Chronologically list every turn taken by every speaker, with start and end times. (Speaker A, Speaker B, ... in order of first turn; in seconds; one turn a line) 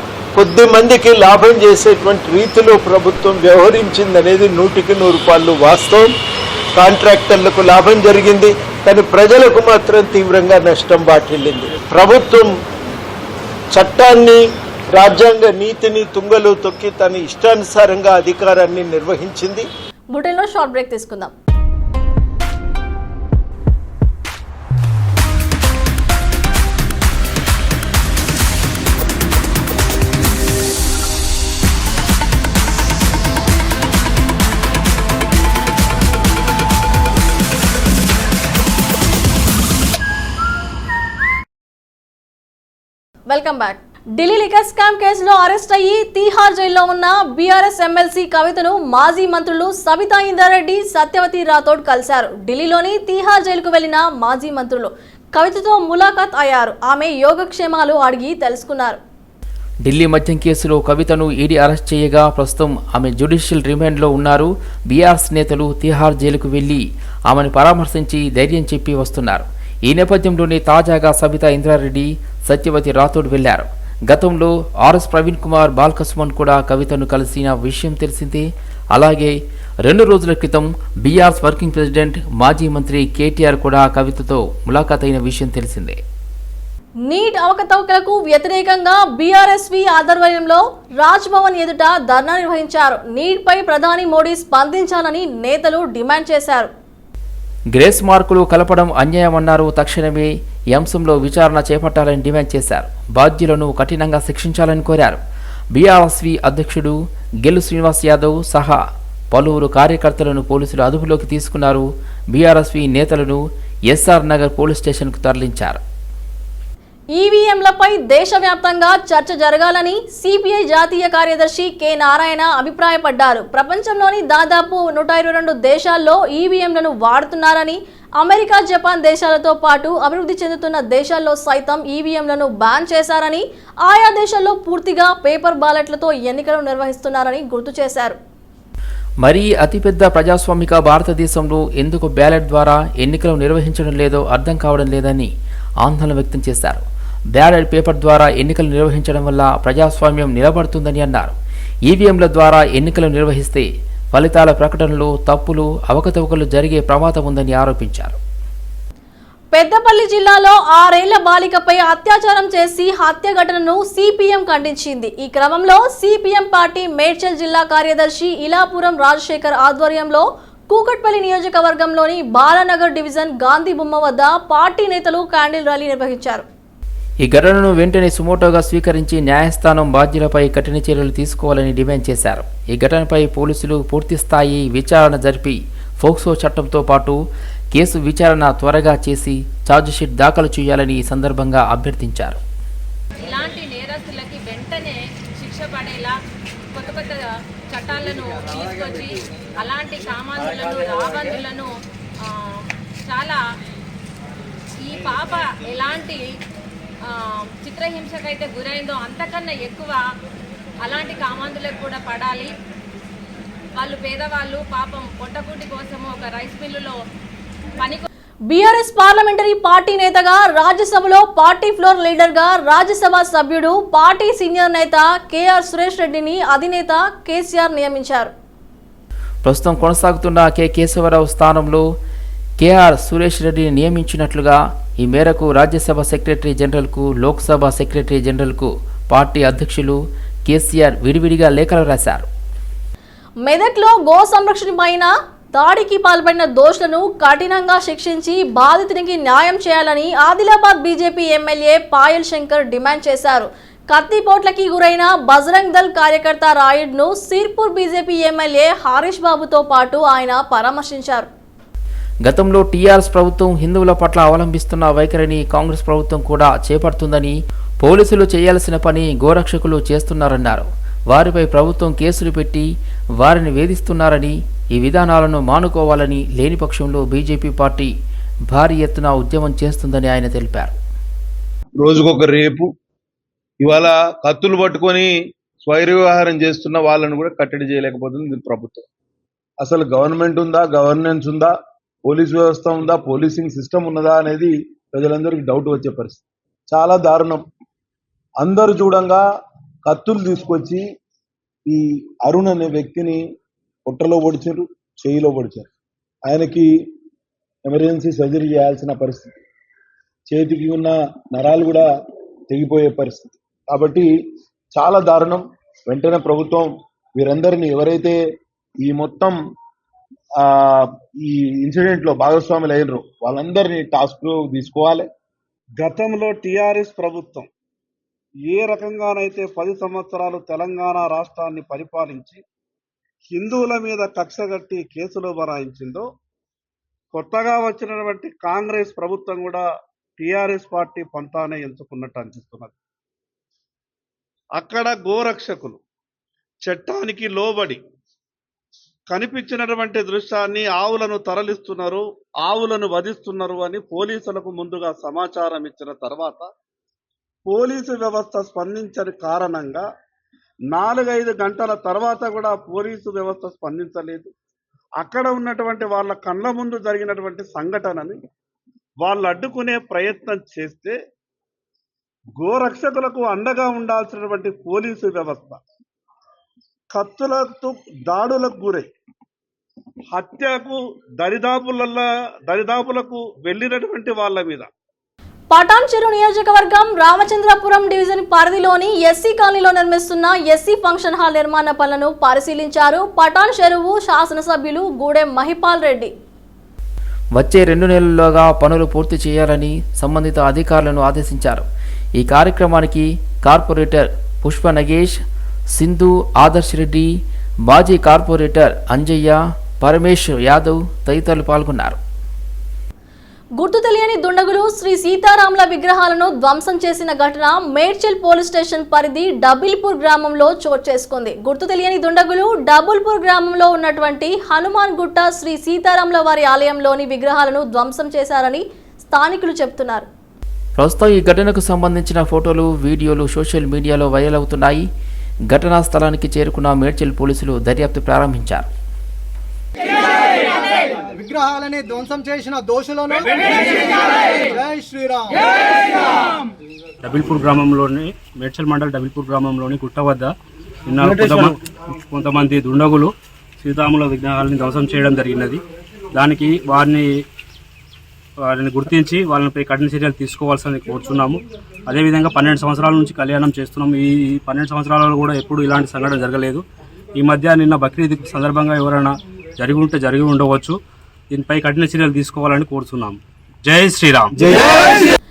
Speaker A: 0.3-6.1
Speaker A: 6.8-12.6
Speaker A: 13.7-19.7
Speaker B: 20.1-21.3
Speaker B: 43.3-59.0
Speaker C: 59.8-86.0
Speaker B: 87.1-96.7
Speaker C: 97.7-105.2
Speaker C: 105.7-115.8
Speaker B: 117.2-138.2
Speaker C: 139.2-145.3
Speaker C: 145.8-151.3
Speaker C: 151.9-158.2
Speaker B: 159.5-176.4
Speaker C: 177.2-187.2
Speaker C: 187.7-192.4
Speaker D: 193.2-196.2
Speaker D: 196.7-201.7
Speaker D: 202.2-203.4
Speaker D: 204.8-206.3
Speaker D: 207.1-210.0
Speaker D: 210.8-212.5
Speaker D: 213.8-217.0
Speaker D: 217.8-218.1
Speaker B: 218.5-228.3
Speaker C: 229.4-231.9
Speaker C: 232.6-242.3
Speaker B: 243.5-261.3
Speaker C: 262.2-272.7
Speaker C: 273.2-277.9
Speaker C: 278.5-280.8
Speaker E: 281.8-282.7
Speaker E: 283.6-285.1
Speaker E: 285.6-288.8
Speaker E: 289.6-291.5
Speaker E: 292.1-297.4
Speaker E: 298.4-299.2
Speaker E: 299.9-300.8
Speaker E: 301.7-303.2
Speaker E: 303.9-305.7
Speaker E: 306.3-306.9
Speaker E: 307.6-309.3
Speaker E: 310.3-311.8
Speaker E: 312.5-314.1
Speaker E: 314.7-318.2
Speaker E: 318.8-319.4
Speaker E: 320.4-325.1
Speaker F: 325.8-327.5
Speaker F: 328.5-332.4
Speaker F: 333.3-336.1
Speaker F: 337.1-339.6
Speaker F: 340.2-342.8
Speaker F: 344.6-345.8
Speaker F: 346.6-347.8
Speaker F: 349.1-356.5
Speaker F: 357.5-359.8
Speaker F: 360.7-364.3
Speaker F: 365.0-368.2
Speaker F: 369.0-370.9
Speaker F: 372.4-375.6
Speaker F: 376.9-378.9
Speaker F: 380.1-384.7
Speaker B: 385.5-396.1
Speaker C: 397.4-401.7
Speaker C: 402.2-405.2
Speaker C: 405.7-407.1
Speaker C: 407.7-412.0
Speaker B: 413.6-430.1
Speaker C: 430.8-434.9
Speaker C: 435.5-438.7
Speaker G: 441.2-445.3
Speaker H: 447.0-450.3
Speaker H: 450.9-455.6
Speaker H: 456.1-457.1
Speaker H: 458.4-466.6
Speaker H: 467.1-470.8
Speaker H: 471.3-474.6